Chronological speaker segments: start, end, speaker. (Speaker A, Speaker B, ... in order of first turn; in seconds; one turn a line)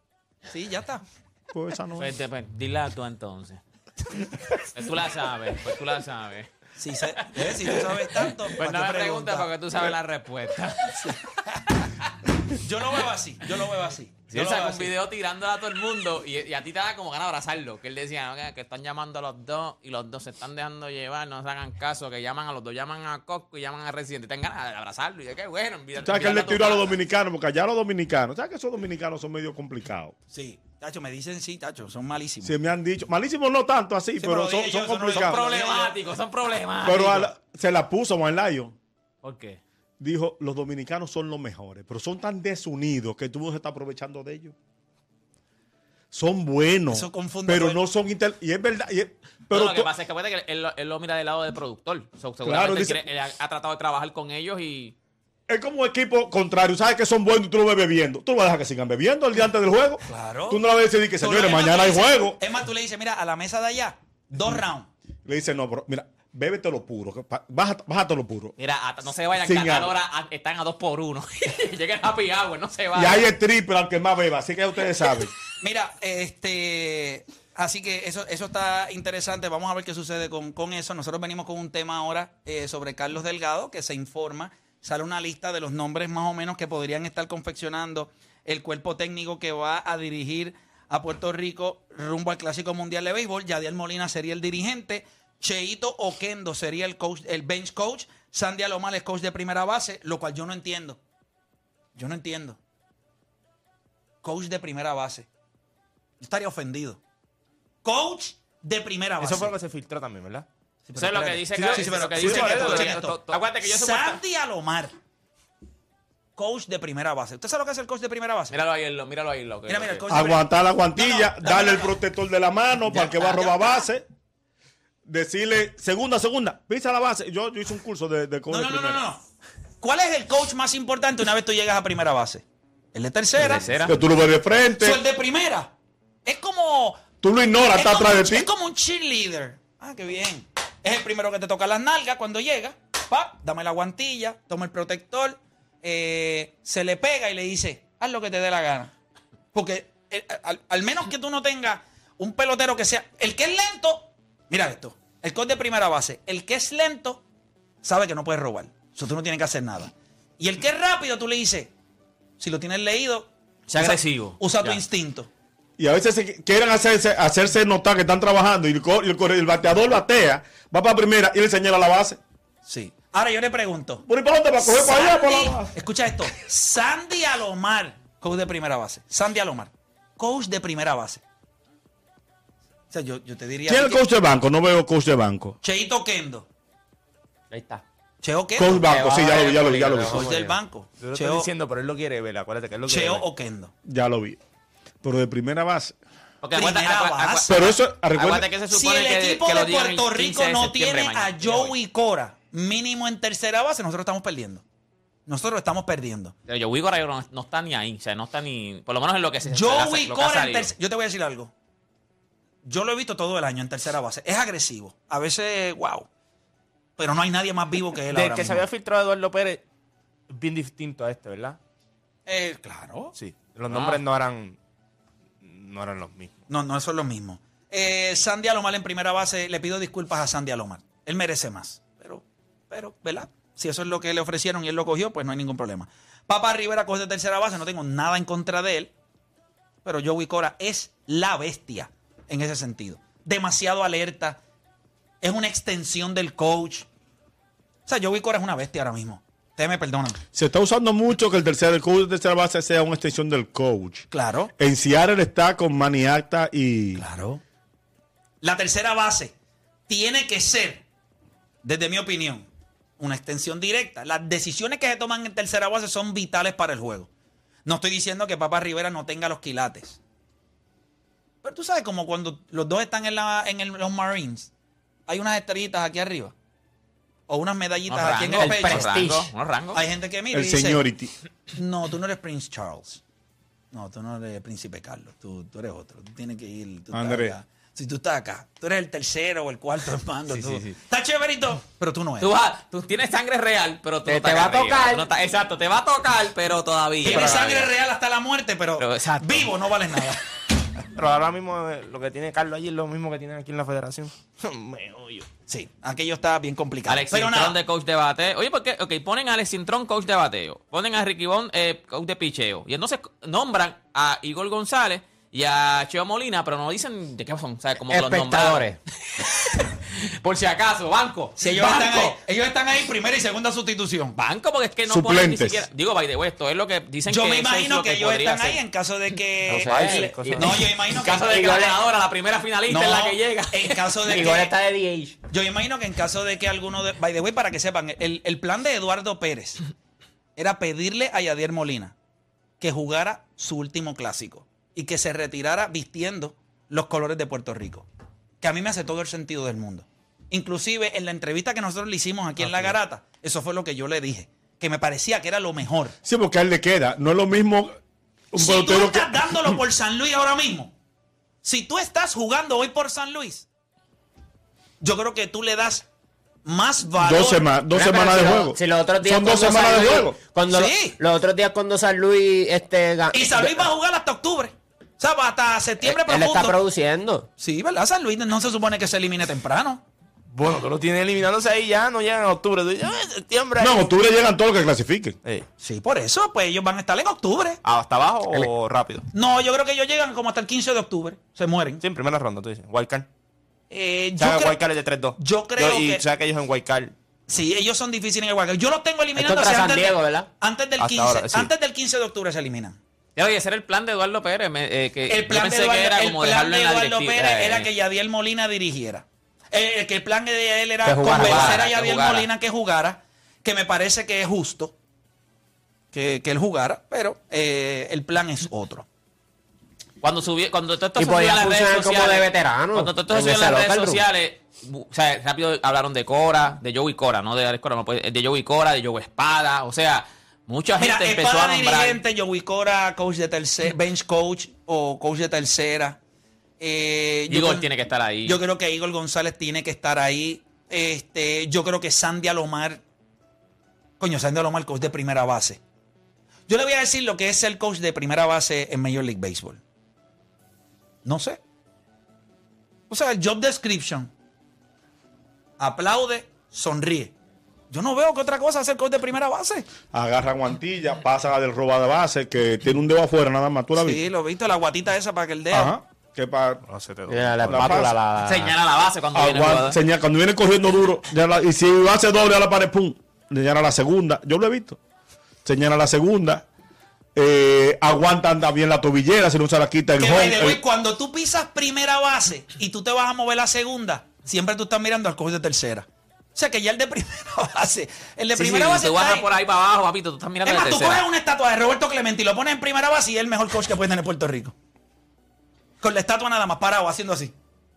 Speaker A: 0.5-1.0
Speaker B: 1.5-2.1
Speaker C: 2.0-3.6
Speaker C: 4.7-6.5
Speaker A: 6.8-9.5
Speaker C: 7.1-11.2
Speaker A: 11.0-11.8
Speaker A: 12.6-14.9
Speaker C: 14.3-27.0
Speaker B: 26.0-30.1
Speaker A: 30.3-32.6
Speaker B: 32.4-35.4
Speaker A: 34.2-36.0
Speaker C: 35.1-37.3
Speaker B: 36.9-38.8
Speaker C: 39.2-39.6
Speaker B: 40.0-44.5
Speaker B: 46.1-49.9
Speaker A: 46.9-47.8
Speaker C: 49.5-54.9
Speaker B: 52.4-53.0
Speaker B: 55.5-62.4
Speaker A: 60.1-60.6
Speaker A: 61.2-64.9
Speaker B: 65.2-68.5
Speaker C: 68.6-73.3
Speaker B: 69.4-70.0
Speaker B: 72.9-75.3
Speaker A: 75.6-101.0
Speaker A: 101.9-102.6
Speaker A: 104.2-105.3
Speaker A: 106.2-107.0
Speaker A: 107.8-109.5
Speaker D: 109.2-110.5
Speaker A: 110.9-114.9
Speaker C: 110.9-114.2
Speaker D: 111.5-113.4
Speaker A: 116.4-118.5
Speaker C: 118.5-120.2
Speaker A: 119.7-122.0
Speaker B: 120.1-124.0
Speaker C: 123.0-123.3
Speaker A: 123.4-123.7
Speaker B: 125.0-129.0
Speaker A: 128.5-129.2
Speaker A: 129.8-133.7
Speaker C: 133.4-133.9
Speaker B: 133.4-135.0
Speaker A: 134.8-135.7
Speaker A: 136.2-137.1
Speaker B: 137.2-138.5
Speaker A: 137.7-148.9
Speaker A: 149.5-157.2
Speaker A: 157.8-161.7
Speaker A: 162.4-165.3
Speaker C: 163.7-164.8
Speaker B: 165.8-172.2
Speaker A: 172.7-174.0
Speaker B: 174.1-175.7
Speaker A: 174.6-181.2
Speaker A: 182.9-184.0
Speaker B: 183.7-185.6
Speaker A: 185.6-186.4
Speaker E: 187.5-187.8
Speaker A: 188.2-191.5
Speaker B: 188.6-190.3
Speaker E: 188.8-190.5
Speaker D: 191.0-193.2
Speaker A: 192.9-193.7
Speaker B: 193.8-194.4
Speaker B: 195.0-195.9
Speaker C: 196.4-201.8
Speaker A: 196.5-197.7
Speaker B: 197.5-198.5
Speaker A: 198.7-204.6
Speaker A: 205.3-206.3
Speaker C: 206.5-210.7
Speaker A: 209.4-211.5
Speaker A: 212.6-216.1
Speaker A: 217.0-218.6
Speaker D: 218.1-219.6
Speaker D: 220.3-221.6
Speaker A: 222.2-223.1
Speaker D: 223.2-224.6
Speaker C: 223.7-224.0
Speaker D: 225.4-226.3
Speaker A: 226.5-238.9
Speaker A: 239.8-244.4
Speaker A: 245.2-246.9
Speaker A: 247.9-250.2
Speaker B: 250.3-257.0
Speaker A: 254.1-254.5
Speaker A: 256.9-257.4
Speaker A: 258.4-259.3
Speaker A: 259.9-260.8
Speaker A: 261.6-262.5
Speaker A: 263.0-267.1
Speaker A: 267.6-270.0
Speaker A: 271.4-274.5
Speaker A: 275.1-276.3
Speaker A: 277.3-279.0
Speaker C: 277.9-279.8
Speaker E: 278.4-279.3
Speaker A: 279.7-280.8
Speaker B: 280.3-281.1
Speaker A: 281.5-283.0
Speaker A: 283.7-292.3
Speaker B: 286.9-287.4
Speaker C: 290.3-290.8
Speaker C: 292.2-297.7
Speaker E: 294.1-295.0
Speaker A: 297.0-300.2
Speaker C: 298.8-299.5
Speaker D: 300.9-305.3
Speaker A: 305.5-307.6
Speaker C: 306.9-322.2
Speaker E: 317.9-318.8
Speaker A: 321.4-324.2
Speaker C: 324.2-328.6
Speaker B: 324.9-325.6
Speaker A: 327.1-331.8
Speaker E: 329.5-330.6
Speaker D: 329.5-330.7
Speaker C: 330.9-334.1
Speaker A: 332.7-334.5
Speaker E: 334.1-335.1
Speaker A: 335.3-339.6
Speaker A: 340.4-341.9
Speaker A: 342.6-347.9
Speaker A: 348.4-356.0
Speaker B: 356.0-357.8
Speaker B: 358.3-359.6
Speaker A: 358.4-360.7
Speaker A: 361.4-363.4
Speaker A: 364.8-365.9
Speaker A: 366.4-367.4
Speaker B: 367.0-370.2
Speaker E: 367.7-373.7
Speaker A: 370.5-371.0
Speaker A: 373.1-376.6
Speaker E: 375.8-377.3
Speaker A: 377.4-379.8
Speaker D: 380.3-383.9
Speaker B: 383.6-385.2
Speaker A: 385.6-387.6
Speaker D: 387.6-389.1
Speaker A: 389.1-391.8
Speaker D: 391.8-393.1
Speaker A: 393.7-394.6
Speaker D: 394.2-396.9
Speaker A: 395.2-396.0
Speaker A: 397.3-402.8
Speaker E: 399.1-400.3
Speaker D: 400.8-401.5
Speaker C: 403.1-407.7
Speaker A: 405.1-414.7
Speaker E: 410.9-411.6
Speaker C: 411.0-412.3
Speaker A: 415.9-418.9
Speaker C: 420.0-432.0
Speaker E: 421.0-424.0
Speaker A: 430.8-436.0
Speaker A: 436.6-437.7
Speaker C: 437.3-438.4
Speaker A: 438.2-442.8
Speaker A: 444.0-445.6
Speaker A: 446.5-449.6
Speaker A: 451.0-451.4
Speaker A: 452.9-454.1
Speaker A: 455.6-457.1
Speaker A: 457.7-459.7
Speaker B: 459.9-464.0
Speaker A: 463.8-465.7
Speaker B: 465.5-466.6
Speaker D: 466.6-467.9
Speaker E: 467.1-468.5
Speaker B: 467.4-468.0
Speaker C: 468.2-469.8
Speaker B: 469.1-474.8
Speaker B: 475.4-476.4
Speaker B: 477.1-480.6
Speaker A: 479.9-489.3
Speaker C: 488.3-491.1
Speaker A: 490.4-494.5
Speaker A: 495.8-497.3